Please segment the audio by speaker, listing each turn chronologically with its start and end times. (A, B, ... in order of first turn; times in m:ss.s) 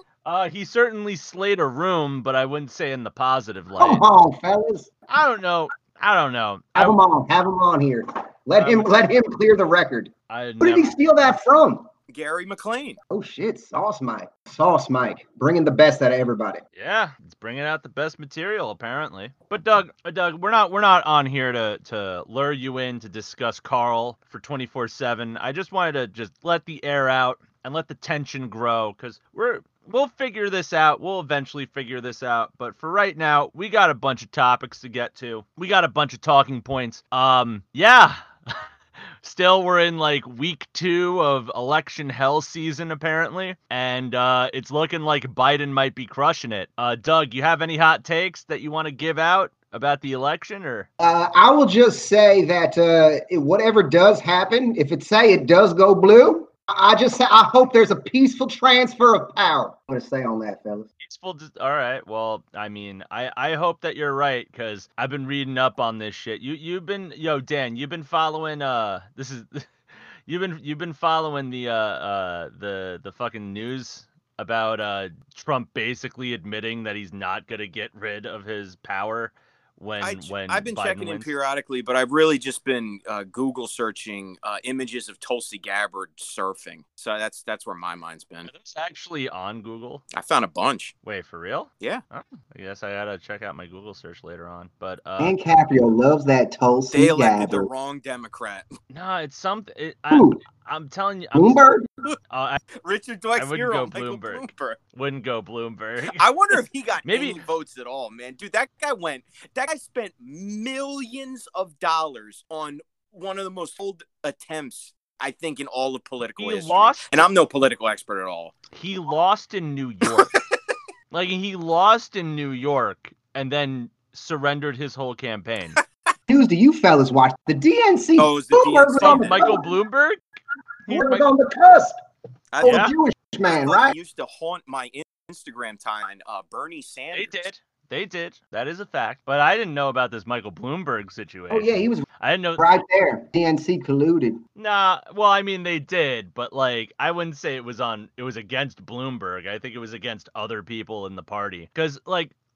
0:00.2-0:04.0 A
0:03.8-0:04.9 B
0:05.1-0:07.0 A
0:06.8-0:11.9 B
0:08.6-0:08.9 A
0:10.3-0:11.0 A
0:12.1-0:13.0 C
0:13.1-0:16.6 B
0:16.8-0:38.7 A
0:39.2-0:50.9 A
0:51.0-1:00.9 B
1:01.0-1:09.7 A
1:10.3-1:21.3 A
1:20.0-1:28.5 C
1:28.5-1:30.0 A
1:30.1-1:30.9 C
1:31.0-1:35.4 A
1:35.2-1:37.7 B
1:36.9-1:38.7 C
1:38.9-1:41.6 A
1:40.1-1:40.4 B
1:41.3-1:41.9 B
1:42.3-1:42.6 A
1:42.8-1:44.8 C
1:43.4-1:46.2 A
1:46.0-1:58.6 C
1:47.0-1:47.4 A
1:56.4-1:57.2 A
1:58.7-2:00.4 A
2:01.1-2:05.8 A
2:06.3-2:09.7 B
2:08.2-2:09.4 C
2:09.0-2:10.2 A
2:10.9-2:11.3 A
2:10.9-2:12.0 B
2:12.5-2:12.9 C
2:12.6-2:14.0 B
2:12.6-2:12.9 A
2:13.5-2:17.5 C
2:17.1-2:22.7 A
2:21.5-2:22.1 B
2:22.6-2:24.4 B
2:24.6-2:32.3 A